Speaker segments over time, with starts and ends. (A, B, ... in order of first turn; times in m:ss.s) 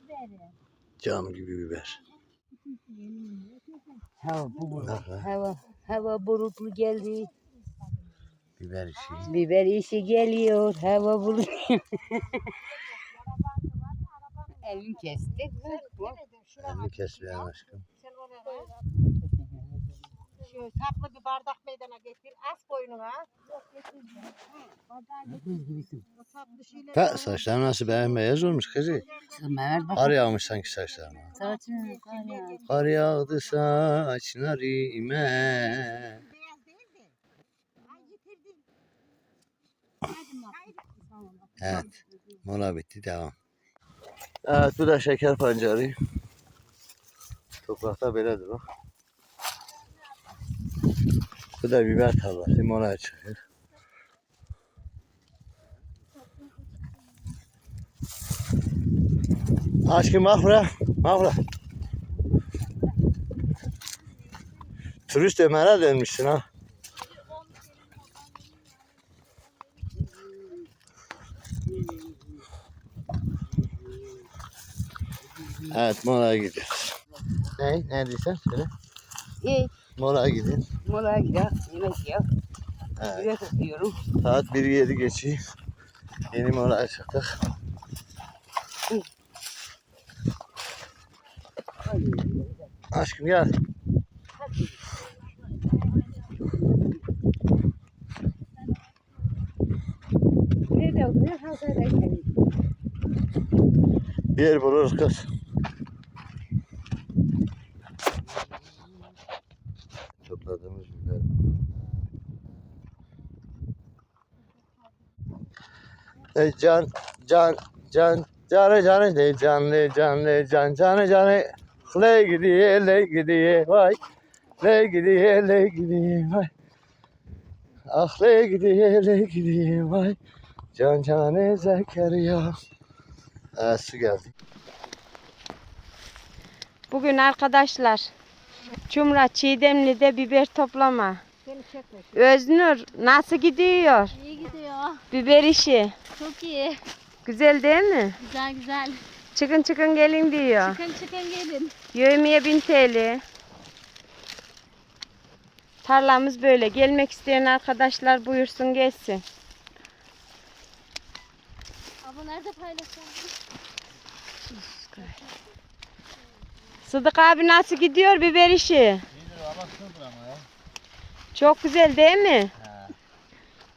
0:01.0-0:02.0 A
0:04.2-0:07.3 B
0:04.8-0:05.3 A
0:08.6-0:09.4 A
0:09.2-0:12.5 B
0:14.6-0:16.2 B
0:16.6-0:17.8 A
0:18.0-0:18.6 C
0:20.5-0:23.3 C
0:25.4-0:26.0 B
0:26.4-0:26.8 C
0:26.9-0:29.2 A
0:29.3-0:30.2 B
0:29.9-0:31.4 A
0:31.3-0:32.7 B
0:32.6-0:36.2 A
0:36.3-0:37.0 C
0:38.0-0:38.4 C
0:41.6-0:41.9 A
0:42.4-0:43.3 A
0:44.4-0:46.0 A
0:47.6-0:48.6 A
0:51.6-0:53.4 A
0:59.8-1:01.4 A
1:05.1-1:06.4 A
1:15.7-1:16.9 A
1:17.6-1:18.7 A
1:19.4-1:19.7 B
1:20.0-1:20.6 A
1:20.8-1:22.2 B
1:23.0-1:23.3 A
1:23.1-1:24.0 B
1:24.2-1:25.4 A
1:26.3-1:27.3 A
1:31.8-1:32.7 B
1:32.9-1:33.5 A
1:40.8-1:42.2 B
1:44.3-1:45.3 A
1:50.2-1:51.3 A
1:56.3-2:04.0 A
2:04.6-2:06.5 A
2:07.9-2:10.2 A
2:10.7-2:12.5 A
2:13.6-2:14.3 A
2:16.9-2:18.1 D
2:18.9-2:21.2 D
2:21.5-2:22.0 C
2:22.1-2:24.1 D
2:24.1-2:25.0 E
2:25.1-2:25.9 D
2:26.2-2:26.8 E
2:27.2-2:28.2 D
2:28.2-2:29.0 E
2:29.3-2:30.8 D
2:30.6-2:31.7 E
2:31.9-2:33.2 D
2:35.8-2:39.2 D
2:42.0-2:43.4 E
2:44.5-2:45.0 D
2:46.8-2:49.0 D
2:49.2-2:50.4 A
2:51.3-2:52.5 D